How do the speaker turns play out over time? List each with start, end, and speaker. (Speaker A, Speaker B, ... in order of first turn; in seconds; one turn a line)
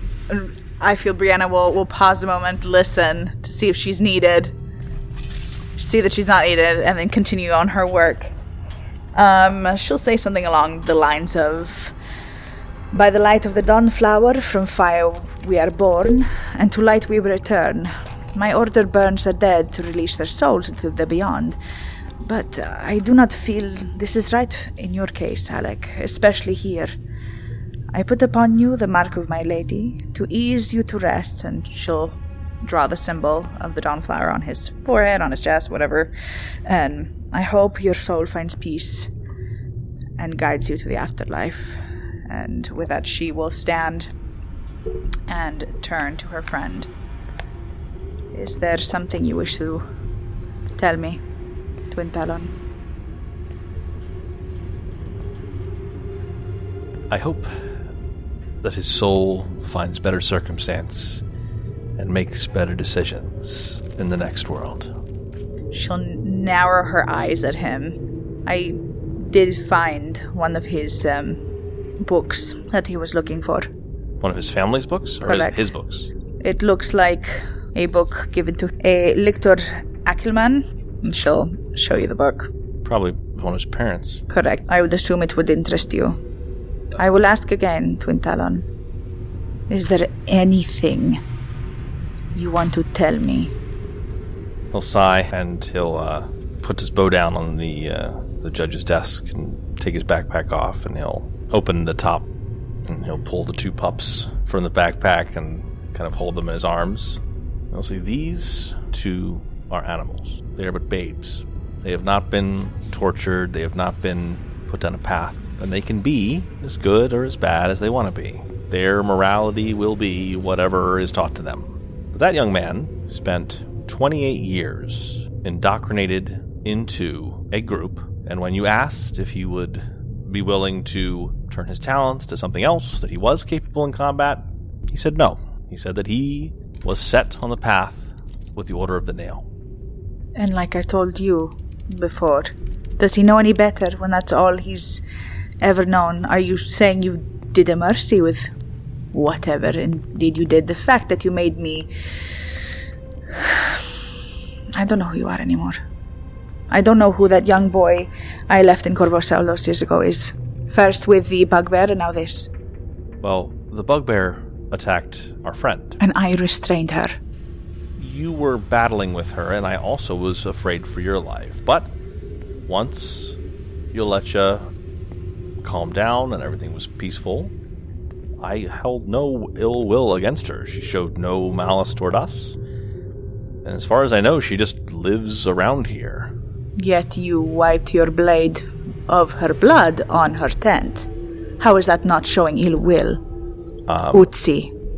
Speaker A: 0.3-4.5
Speaker A: 5.8-8.3
Speaker A: 9.1-11.9
Speaker A: 12.9-21.6
Speaker A: 22.2-26.9
Speaker A: 27.9-36.1
Speaker A: 36.6-39.1
Speaker A: 40.2-44.1
Speaker A: 45.3-46.9
Speaker A: 48.3-49.8
Speaker A: 50.8-51.2
Speaker A: 51.9-52.5
Speaker B: 57.1-57.5
Speaker B: 58.6-61.2
Speaker B: 62.0-64.9
Speaker A: 65.7-71.4
Speaker A: 72.0-73.7
Speaker B: 74.2-76.1
Speaker A: 75.2-75.7
Speaker A: 76.4-82.5
Speaker B: 82.8-84.2
Speaker A: 84.3-86.2
Speaker A: 87.0-88.7
Speaker A: 89.7-91.2
Speaker A: 92.3-93.5
Speaker B: 94.7-102.3
Speaker B: 102.9-107.2
Speaker B: 107.7-139.4
Speaker A: 140.3-145.0
Speaker A: 145.6-148.5
Speaker A: 149.1-151.9
Speaker A: 153.4-153.8
Speaker A: 154.7-155.8
Speaker A: 156.7-162.5
Speaker B: 163.2-166.0
Speaker A: 166.0-167.2
Speaker B: 168.0-171.9
Speaker B: 172.7-173.4
Speaker B: 173.9-174.7
Speaker B: 175.6-177.5
Speaker B: 178.4-182.6
Speaker B: 183.6-186.3
Speaker A: 186.8-191.1
Speaker A: 191.6-193.2
Speaker B: 193.9-194.3
Speaker A: 194.1-194.7